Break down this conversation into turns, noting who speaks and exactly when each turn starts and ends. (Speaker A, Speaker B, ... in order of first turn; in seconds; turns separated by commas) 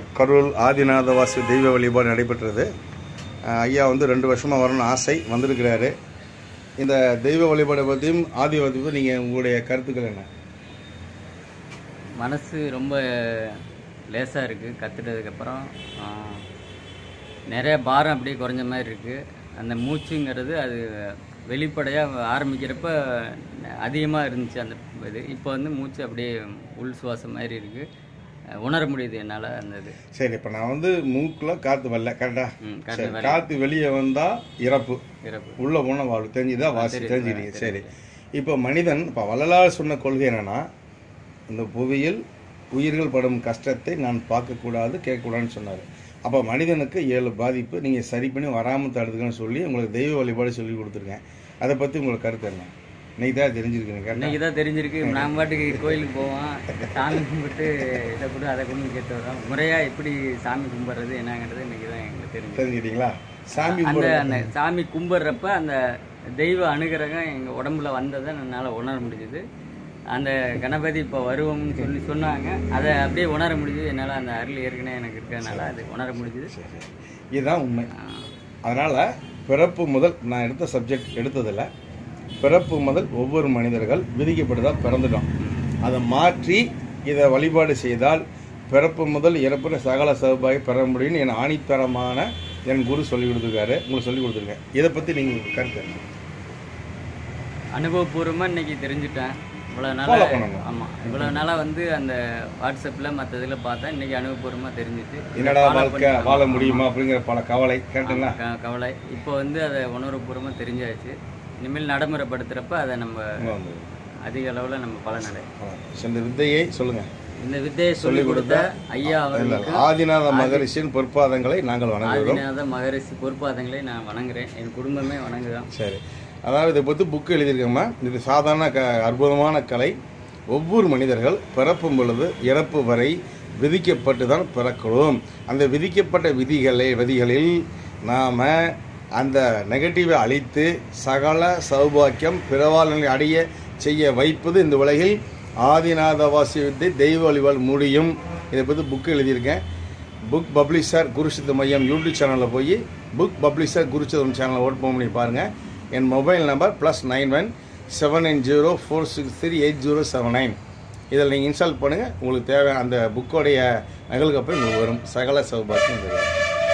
Speaker A: 0.1-2.7, Speaker A: 3.5-5.9, Speaker A: 6.8-10.3, Speaker B: 12.2-16.4, Speaker B: 17.5-27.9, Speaker B: 28.6-30.0, Speaker A: 30.1-35.0, Speaker B: 32.6-33.4, Speaker B: 35.2-35.6, Speaker A: 35.6-37.8, Speaker B: 36.7-37.9, Speaker A: 38.4-40.6, Speaker A: 41.5-42.2, Speaker A: 42.7-54.4, Speaker B: 54.1-62.7, Speaker A: 55.0-55.9, Speaker A: 62.5-64.5, Speaker B: 63.5-65.8, Speaker B: 66.4-69.4, Speaker B: 70.1-76.5, Speaker A: 75.4-77.9, Speaker B: 77.9-78.3, Speaker A: 78.7-81.7, Speaker A: 82.4-85.3, Speaker B: 85.4-85.8, Speaker A: 85.8-96.1, Speaker B: 97.7-106.9, Speaker A: 100.0-101.4, Speaker A: 105.3-108.4, Speaker B: 108.0-113.4, Speaker A: 113.4-113.8, Speaker B: 114.2-115.5, Speaker A: 115.5-117.1, Speaker B: 117.4-120.7, Speaker A: 118.0-122.4, Speaker B: 122.0-125.7, Speaker A: 125.7-129.9, Speaker A: 130.5-149.6, Speaker A: 150.3-160.6, Speaker A: 161.1-166.3